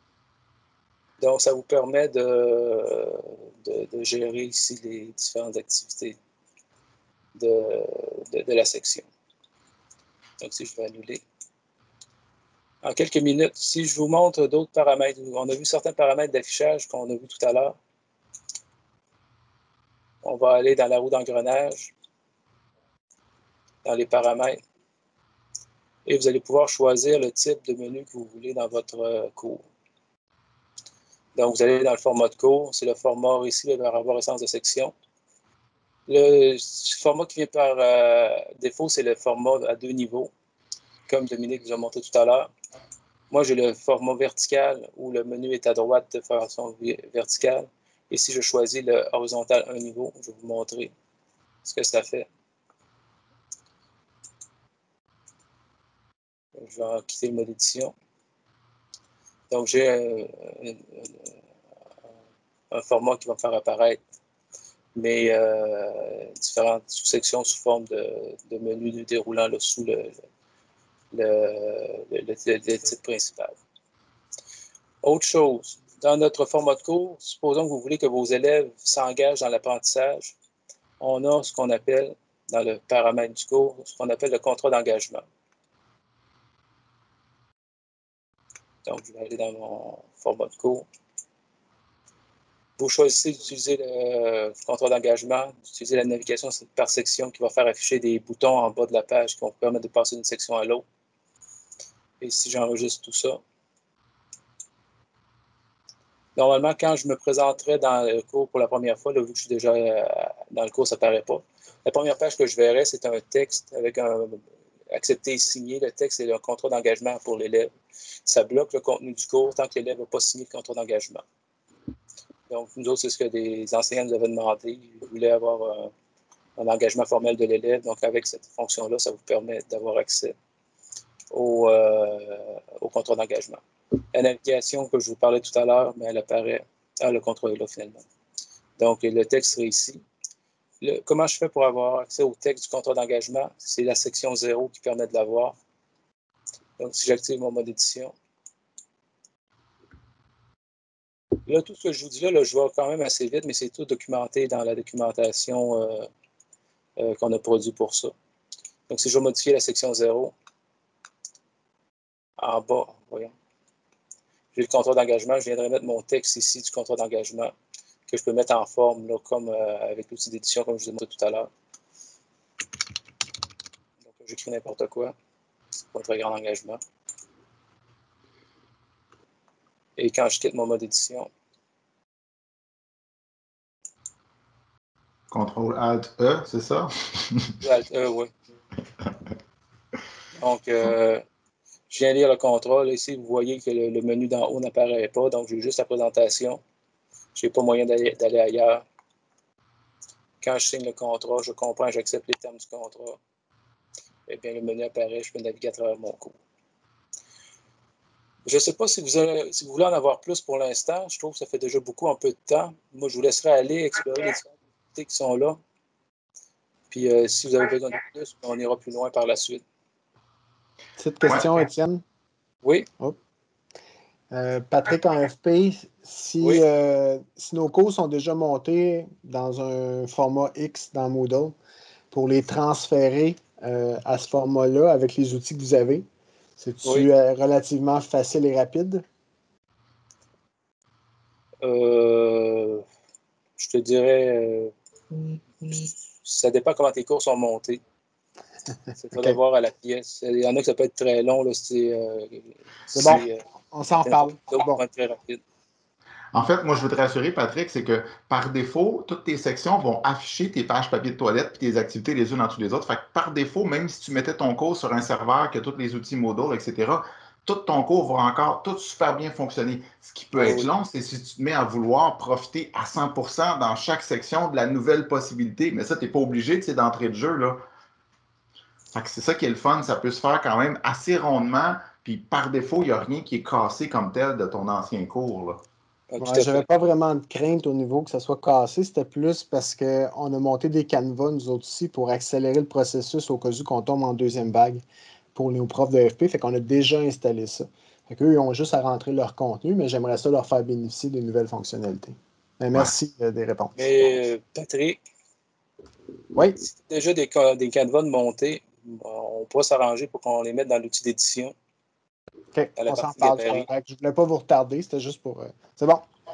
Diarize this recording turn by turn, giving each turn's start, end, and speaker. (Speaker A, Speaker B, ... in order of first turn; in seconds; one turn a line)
Speaker A: 1.2-6.2
Speaker A: 7.3-9.1
Speaker A: 10.4-11.2
Speaker A: 12.8-17.8
Speaker A: 20.2-21.9
Speaker A: 23.8-24.6
Speaker A: 26.1-29.6
Speaker A: 31.4-34.9
Speaker A: 36.1-40.3
Speaker A: 41.1-42.5
Speaker A: 43.3-50.9
Speaker A: 51.6-52.3
Speaker A: 56.6-57.9
Speaker A: 59.5-61.3
Speaker A: 62.7-64.0
Speaker A: 64.9-70.1
Speaker A: 71.1-73.6
Speaker A: 75.0-80.3
Speaker A: 81.0-85.2
Speaker A: 88.8-90.9
Speaker A: 92.8-100.8
Speaker A: 102.2-103.4
Speaker A: 106.3-117.7
Speaker A: 118.2-121.2
Speaker A: 122.5-125.9
Speaker A: 126.6-130.3
Speaker A: 131.3-133.6
Speaker A: 134.1-138.0
Speaker A: 138.8-140.0
Speaker A: 140.8-145.6
Speaker A: 146.8-148.1
Speaker A: 151.4-156.1
Speaker A: 157.0-158.1
Speaker A: 158.9-160.3
Speaker A: 162.4-163.3
Speaker A: 164.5-167.5
Speaker A: 168.1-171.5
Speaker A: 174.1-175.1
Speaker A: 175.9-176.8
Speaker A: 180.0-181.3
Speaker B: 185.3-187.6
Speaker A: 187.6-188.3
Speaker A: 190.3-191.2
Speaker A: 191.9-196.6
Speaker A: 197.3-198.8
Speaker A: 200.4-203.2
Speaker A: 204.3-206.3
Speaker A: 208.4-215.6
Speaker A: 216.9-219.6
Speaker C: 221.0-222.0
Speaker C: 224.3-231.6
Speaker C: 232.1-236.1
Speaker C: 236.6-239.0
Speaker A: 241.6-242.8
Speaker A: 243.6-244.7
Speaker A: 245.6-247.8
Speaker A: 249.0-253.4
Speaker C: 252.9-254.8
Speaker A: 253.9-255.4
Speaker B: 256.3-277.6
Speaker A: 270.4-270.7
Speaker B: 278.9-285.6
Speaker A: 286.1-286.7
Speaker C: 286.2-304.2
Speaker A: 303.8-305.0
Speaker C: 306.3-306.6
Speaker A: 306.6-311.5
Speaker C: 312.5-316.0
Speaker A: 312.8-313.7